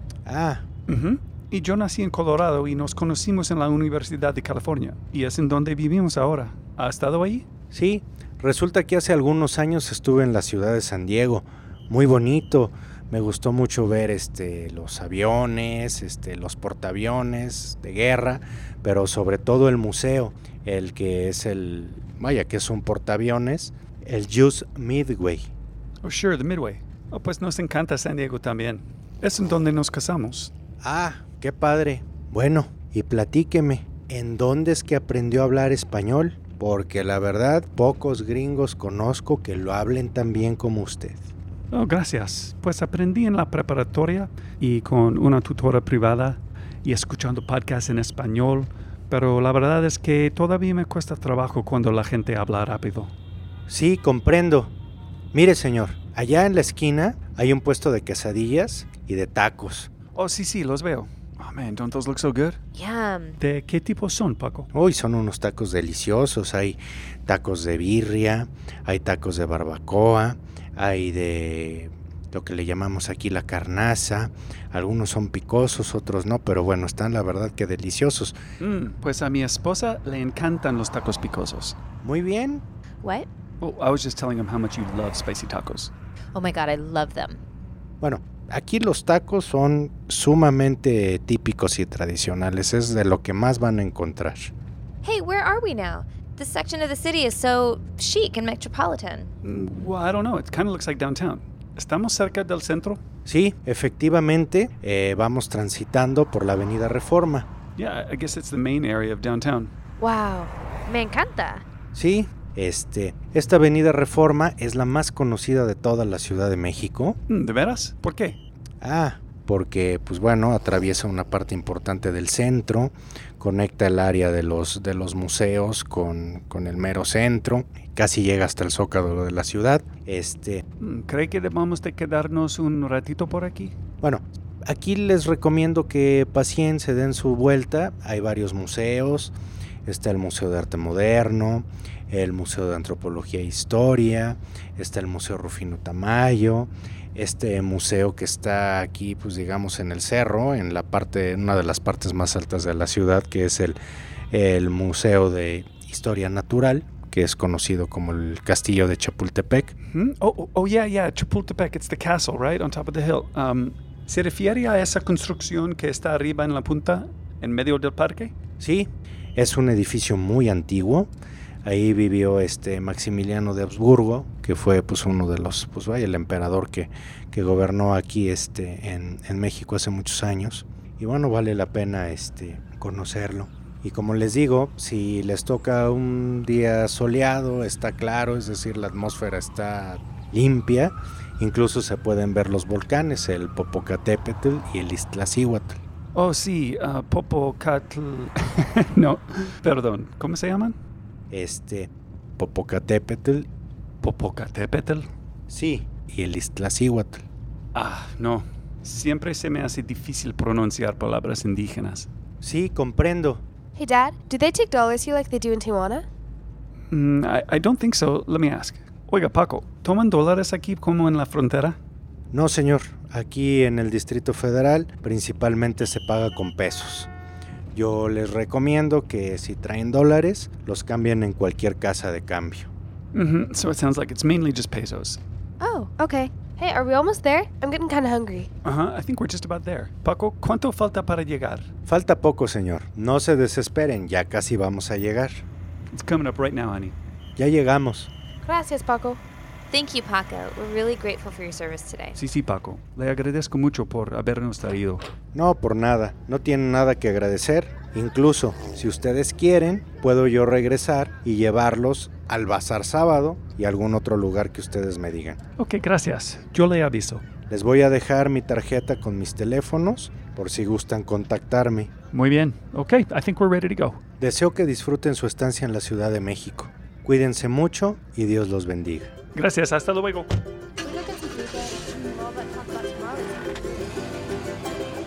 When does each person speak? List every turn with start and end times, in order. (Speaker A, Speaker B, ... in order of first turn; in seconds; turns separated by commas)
Speaker A: 0.2-0.6, Speaker B: 0.9-7.5, Speaker A: 7.7-25.5, Speaker B: 26.0-30.5, Speaker A: 30.8-41.3, Speaker B: 41.7-53.1, Speaker A: 53.7-54.7, Speaker A: 55.3-59.9, Speaker B: 60.1-62.6, Speaker C: 62.8-63.4, Speaker B: 63.4-64.7, Speaker A: 64.7-78.4, Speaker B: 78.6-81.8, Speaker A: 82.0-82.6, Speaker B: 83.6-85.9, Speaker C: 86.3-87.4, Speaker A: 88.0-94.5, Speaker C: 95.0-99.3, Speaker B: 99.4-103.0, Speaker A: 103.2-107.5, Speaker B: 107.8-109.7, Speaker D: 110.0-111.6, Speaker A: 111.9-117.2, Speaker B: 117.3-118.4, Speaker A: 118.8-130.6, Speaker B: 130.8-133.8, Speaker A: 134.0-139.3, Speaker A: 139.9-153.8, Speaker A: 154.3-159.7, Speaker B: 159.9-168.3, Speaker A: 168.6-171.1, Speaker A: 171.6-195.8, Speaker B: 196.1-200.8, Speaker A: 201.3-203.5, Speaker B: 204.0-205.1, Speaker A: 205.5-207.2, Speaker B: 207.8-212.1, Speaker A: 212.4-213.4, Speaker D: 213.8-216.1, Speaker B: 216.9-221.8, Speaker A: 222.3-227.1, Speaker A: 227.7-232.7, Speaker B: 233.1-235.2, Speaker D: 235.6-238.5, Speaker B: 238.6-241.7, Speaker A: 241.9-245.4, Speaker B: 245.9-246.9, Speaker A: 247.4-248.1, Speaker D: 248.4-249.2, Speaker C: 249.7-252.2, Speaker B: 252.2-255.0, Speaker A: 255.3-265.4, Speaker B: 265.6-267.2, Speaker A: 267.5-271.9, Speaker B: 272.1-274.0, Speaker A: 274.2-279.1, Speaker B: 279.4-280.3, Speaker D: 280.8-283.6